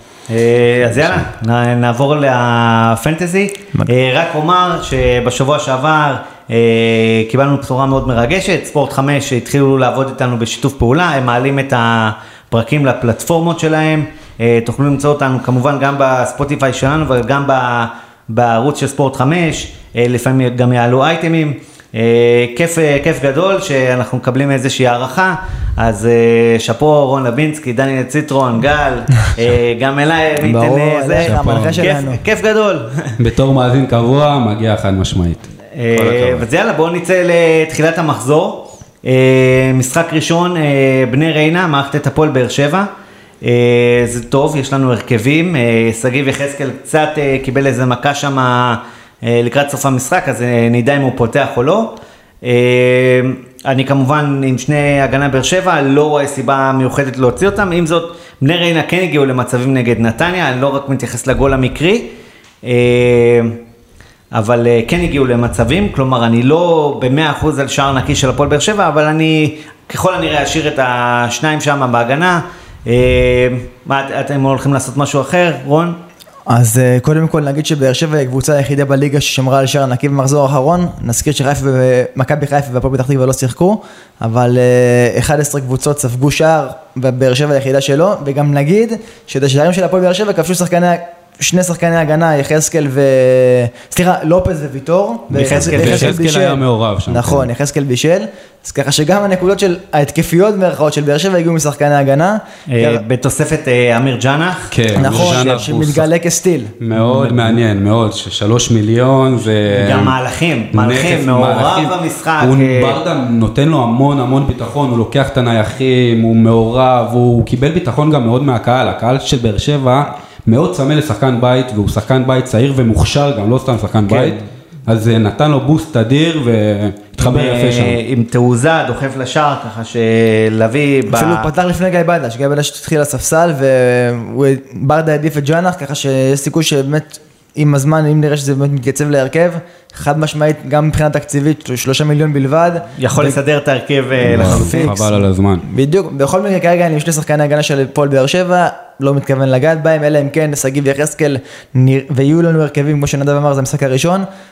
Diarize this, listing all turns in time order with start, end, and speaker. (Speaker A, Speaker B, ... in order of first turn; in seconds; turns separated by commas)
Speaker A: 0.3-33.1, Speaker B: 30.4-32.2, Speaker C: 31.2-31.9, Speaker C: 33.2-36.5, Speaker A: 35.7-42.9, Speaker A: 43.4-62.1, Speaker A: 62.6-63.6, Speaker A: 64.3-76.0, Speaker B: 76.5-103.0, Speaker A: 95.3-96.2, Speaker C: 95.3-97.5, Speaker A: 102.7-105.7, Speaker C: 104.7-106.1, Speaker B: 105.0-106.7, Speaker C: 106.8-110.2, Speaker A: 107.0-107.6, Speaker A: 109.7-113.0, Speaker C: 110.7-128.0, Speaker A: 124.1-124.5, Speaker A: 127.2-131.5, Speaker B: 131.1-143.3, Speaker A: 143.0-144.9, Speaker C: 144.2-145.7, Speaker B: 144.2-154.2